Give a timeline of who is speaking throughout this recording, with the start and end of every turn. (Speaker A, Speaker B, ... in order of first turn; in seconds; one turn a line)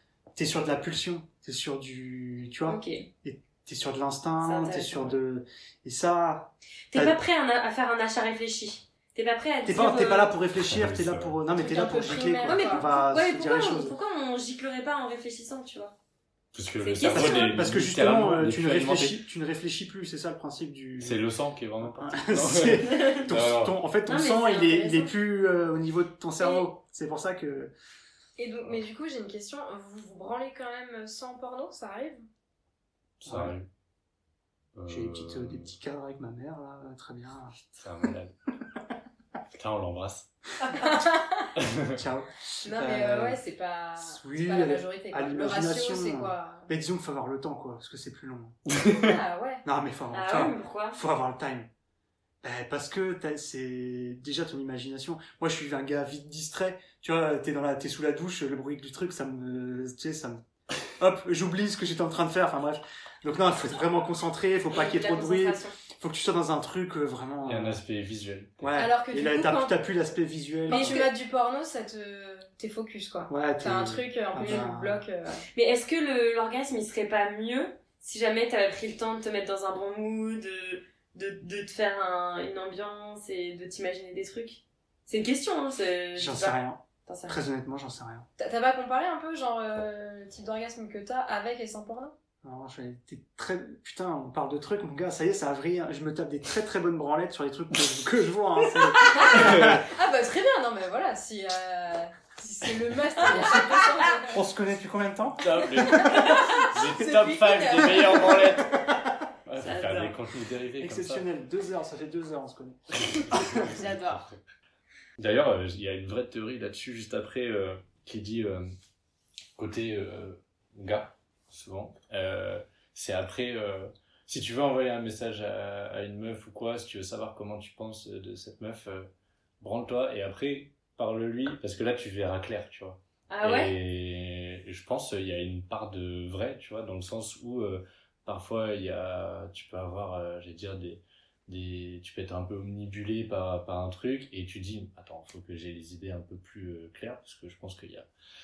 Speaker A: 0.4-7.2
Speaker B: 2.6-3.0
Speaker B: 4.4-5.2
Speaker B: 6.9-10.3
Speaker A: 9.6-13.9
Speaker C: 10.6-11.4
Speaker D: 11.5-12.9
Speaker B: 12.4-15.9
Speaker C: 16.5-19.2
Speaker B: 16.8-17.6
Speaker A: 17.1-21.2
Speaker C: 21.0-23.7
Speaker A: 21.8-27.7
Speaker B: 22.9-23.2
Speaker B: 24.1-25.1
Speaker B: 26.4-26.6
Speaker D: 28.4-32.2
Speaker C: 33.2-33.7
Speaker A: 33.2-33.5
Speaker C: 34.7-35.7
Speaker A: 34.9-37.6
Speaker C: 37.8-38.3
Speaker C: 39.5-40.3
Speaker D: 40.6-41.5
Speaker C: 41.6-42.0
Speaker A: 41.9-43.4
Speaker D: 42.6-46.7
Speaker A: 44.0-49.0
Speaker D: 48.9-49.6
Speaker A: 49.6-51.7
Speaker B: 50.1-51.0
Speaker A: 52.4-60.4
Speaker A: 61.0-67.8
Speaker B: 64.7-65.7
Speaker C: 67.5-68.8
Speaker A: 68.6-71.1
Speaker D: 68.8-69.8
Speaker D: 70.7-75.4
Speaker B: 70.7-71.1
Speaker A: 73.3-75.0
Speaker B: 75.5-87.4
Speaker A: 86.2-88.2
Speaker D: 88.4-92.1
Speaker A: 92.4-99.8
Speaker D: 99.2-104.4
Speaker C: 99.3-99.8
Speaker A: 104.2-106.3
Speaker C: 105.4-108.8
Speaker D: 105.6-108.4
Speaker A: 107.7-109.8
Speaker C: 109.5-111.2
Speaker B: 109.6-110.2
Speaker A: 110.8-113.8
Speaker C: 113.1-114.4
Speaker D: 113.7-114.3
Speaker C: 115.2-118.7
Speaker C: 119.6-148.1
Speaker B: 133.3-133.7